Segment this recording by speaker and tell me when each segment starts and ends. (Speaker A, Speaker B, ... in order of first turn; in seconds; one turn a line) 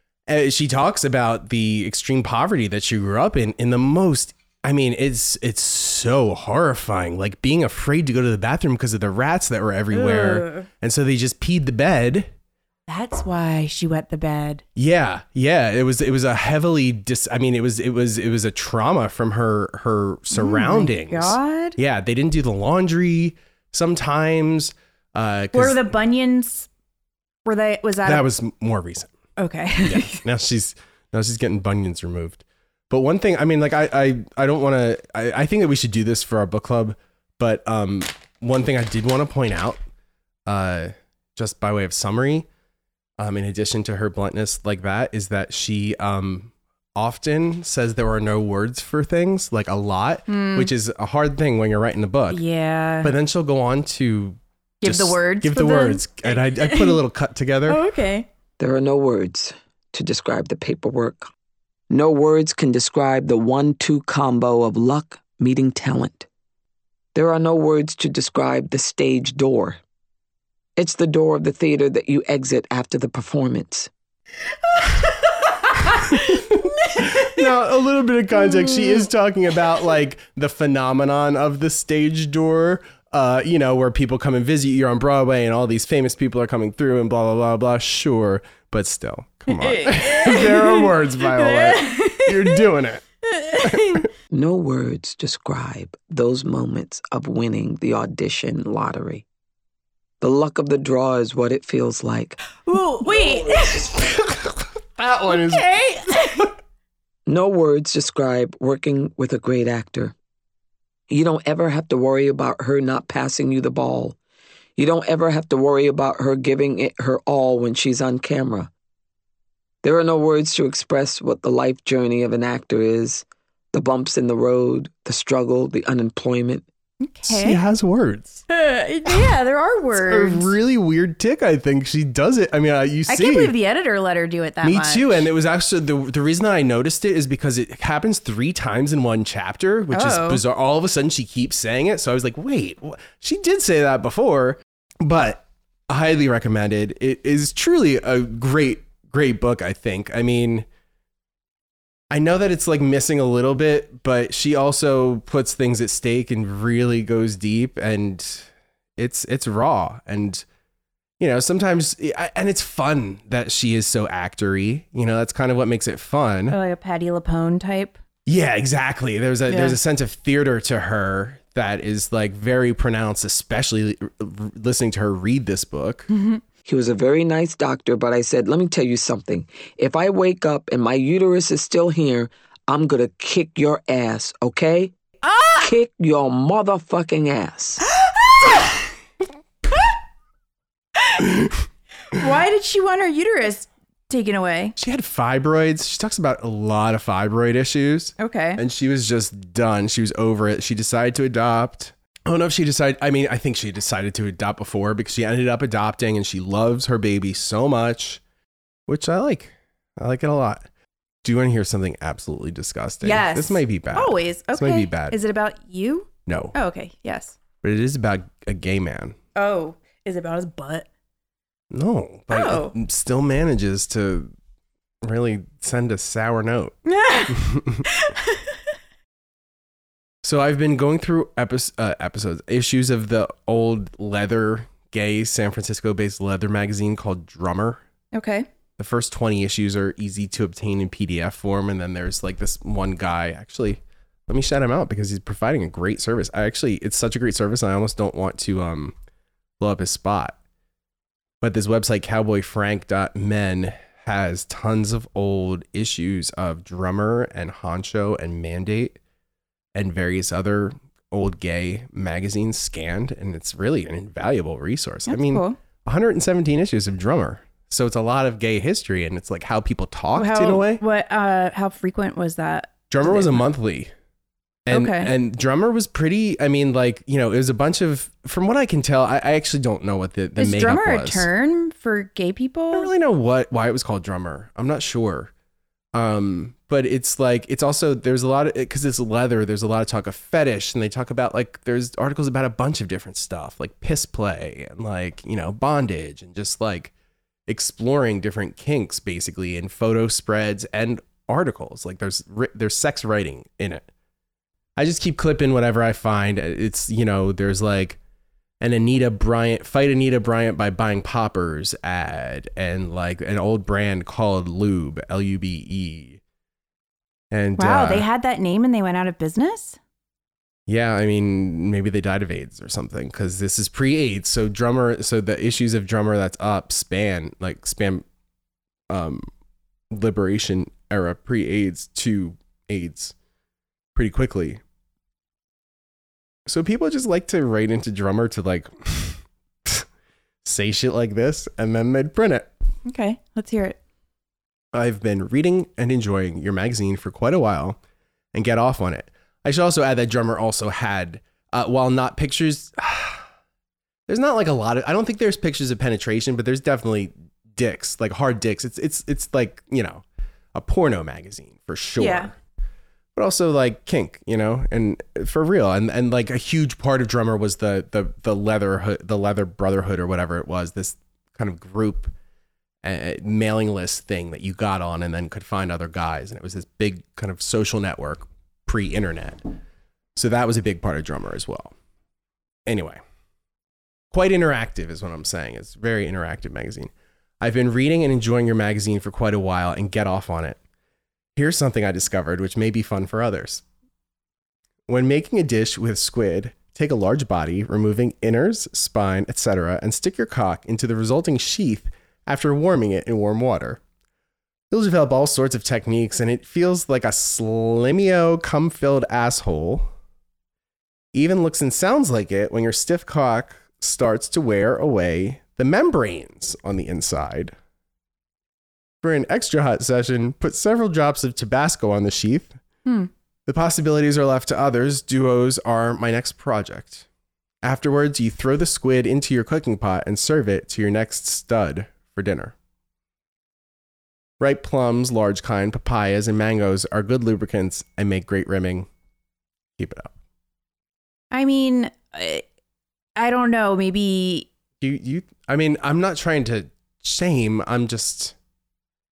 Speaker A: 0.3-12.3
Speaker B: 9.9-10.7
Speaker B: 12.9-14.6
Speaker A: 14.8-25.9
Speaker B: 20.3-21.8
Speaker B: 25.5-26.7
Speaker B: 27.4-28.2
Speaker A: 28.1-29.1
Speaker B: 29.4-30.2
Speaker A: 29.8-39.8
Speaker A: 40.5-42.5
Speaker A: 43.2-52.4
Speaker B: 50.3-50.7
Speaker B: 52.3-53.1
Speaker A: 53.0-57.8
Speaker B: 54.8-57.0
Speaker B: 57.7-58.3
Speaker C: 58.6-61.3
Speaker C: 61.9-66.3
Speaker C: 67.1-69.8
Speaker C: 70.8-73.9
Speaker B: 74.7-77.5
Speaker A: 76.1-93.0
Speaker B: 78.5-79.1
Speaker B: 89.5-92.6
Speaker B: 93.3-94.0
Speaker A: 93.6-94.1
Speaker C: 94.3-99.2
Speaker C: 100.2-102.4
Speaker B: 102.7-104.0
Speaker A: 103.9-105.7
Speaker B: 105.3-106.5
Speaker C: 107.3-110.1
Speaker C: 111.1-114.2
Speaker C: 114.8-118.7
Speaker C: 119.8-126.7
Speaker B: 127.0-127.6
Speaker A: 127.2-128.4
Speaker B: 128.5-130.5
Speaker A: 129.9-133.5
Speaker B: 133.1-135.3
Speaker A: 134.6-150.7
Speaker B: 139.9-140.4
Speaker A: 152.1-160.4
Speaker A: 161.2-166.6
Speaker B: 166.5-168.0
Speaker A: 168.3-176.1
Speaker B: 169.5-169.8
Speaker B: 176.1-176.4
Speaker C: 176.7-184.9
Speaker B: 185.2-185.7
Speaker C: 185.6-187.8
Speaker B: 187.9-188.8
Speaker B: 191.0-191.3
Speaker B: 192.1-194.8
Speaker A: 194.8-208.2
Speaker B: 198.2-198.6
Speaker A: 208.9-210.7
Speaker A: 211.2-215.2
Speaker B: 213.0-217.4
Speaker A: 216.3-216.6
Speaker A: 217.6-219.2
Speaker B: 219.3-220.9
Speaker A: 221.7-224.3
Speaker B: 222.3-222.7
Speaker A: 225.0-226.8
Speaker B: 226.9-228.4
Speaker A: 227.3-227.9
Speaker A: 230.2-237.8
Speaker B: 238.1-238.5
Speaker A: 238.8-248.9
Speaker A: 249.6-250.4
Speaker A: 251.4-259.0
Speaker A: 259.8-270.8
Speaker B: 265.1-265.6
Speaker B: 270.2-273.4
Speaker A: 272.9-273.9
Speaker A: 274.7-281.3
Speaker B: 274.7-275.1
Speaker B: 280.4-282.9
Speaker A: 282.7-285.3
Speaker A: 285.9-296.9
Speaker A: 297.5-303.9
Speaker A: 304.8-308.0
Speaker A: 308.6-316.2
Speaker A: 317.3-318.1
Speaker B: 317.6-319.8
Speaker A: 320.7-328.1
Speaker A: 328.9-329.3
Speaker A: 329.9-333.1
Speaker A: 333.9-334.6
Speaker A: 336.5-339.9
Speaker A: 340.4-342.5
Speaker B: 342.9-343.8
Speaker A: 344.7-347.8
Speaker A: 348.3-353.2
Speaker A: 354.1-362.4
Speaker B: 362.0-362.3
Speaker A: 363.2-372.1
Speaker A: 372.8-379.5
Speaker A: 380.2-381.7
Speaker A: 382.7-383.0
Speaker A: 384.1-390.6
Speaker A: 391.4-393.6
Speaker A: 394.9-403.8
Speaker A: 404.7-409.9
Speaker A: 411.1-417.5
Speaker A: 419.0-422.6
Speaker A: 423.5-427.1
Speaker A: 427.6-432.5
Speaker A: 434.4-438.9
Speaker A: 439.8-440.1
Speaker B: 441.3-442.4
Speaker B: 443.2-444.5
Speaker A: 444.8-448.4